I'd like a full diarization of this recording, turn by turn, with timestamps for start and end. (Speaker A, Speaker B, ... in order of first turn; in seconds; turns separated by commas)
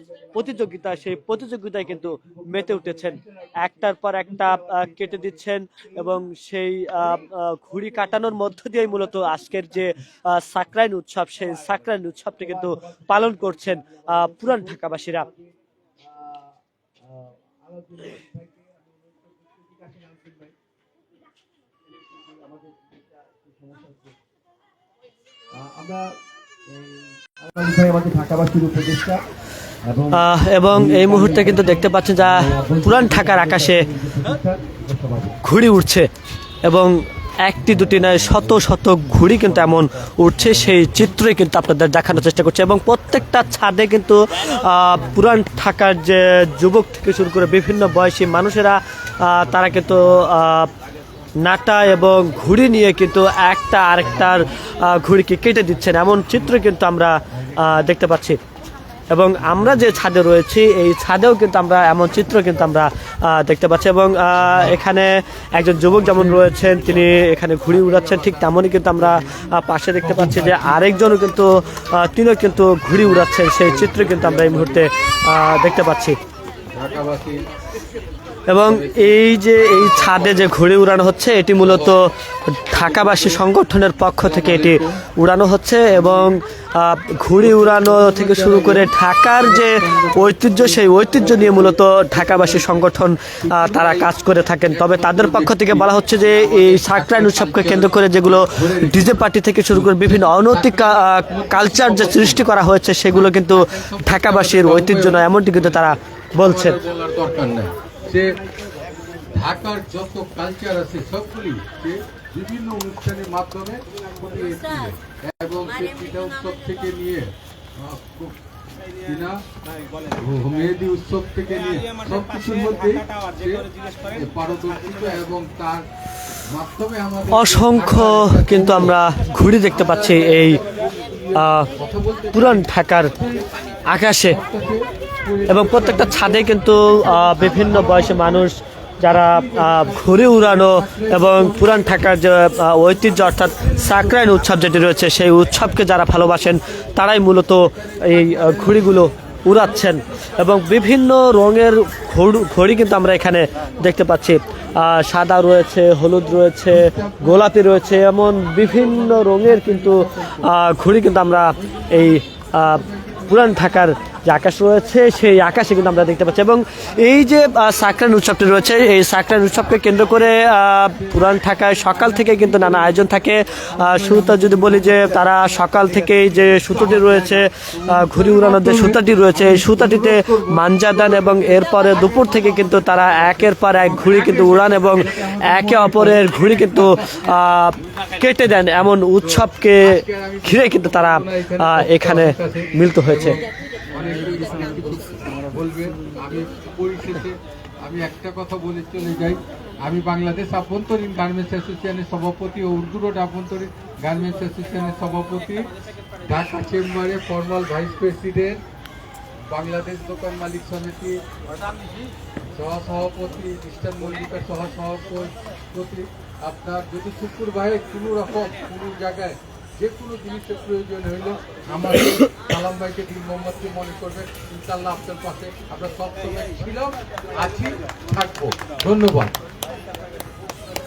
Speaker A: 0.2-0.9, Speaker B: 0.3-15.2, Speaker A: 2.0-3.2, Speaker A: 4.5-5.1, Speaker A: 12.4-20.5, Speaker A: 22.0-24.1, Speaker A: 25.5-26.1, Speaker A: 26.7-29.2, Speaker A: 29.8-35.4, Speaker B: 30.1-33.9, Speaker B: 35.4-36.1, Speaker B: 36.6-50.7, Speaker B: 51.4-58.4, Speaker B: 59.1-76.2, Speaker C: 70.1-70.8, Speaker C: 73.1-74.9, Speaker C: 76.7-77.4, Speaker B: 78.5-106.8, Speaker C: 78.6-80.5, Speaker C: 81.6-82.0, Speaker C: 82.7-83.4, Speaker C: 84.2-85.0, Speaker C: 85.9-86.3, Speaker C: 87.4-94.1, Speaker C: 94.7-102.5, Speaker C: 103.1-105.8, Speaker C: 106.4-108.4, Speaker C: 109.3-118.4, Speaker C: 119.0-119.4, Speaker C: 120.1-125.9, Speaker C: 126.4-129.0, Speaker B: 127.3-130.6, Speaker C: 129.6-133.5, Speaker B: 131.3-131.7, Speaker B: 132.3-133.1, Speaker B: 133.9-134.4, Speaker C: 134.3-138.5, Speaker B: 135.5-193.4, Speaker C: 139.1-142.1, Speaker C: 143.7-144.1, Speaker C: 147.8-149.0, Speaker C: 156.7-157.5, Speaker C: 158.5-160.5, Speaker C: 162.8-163.2, Speaker C: 176.0-187.3, Speaker C: 189.2-208.6, Speaker C: 209.5-211.2, Speaker C: 212.5-229.3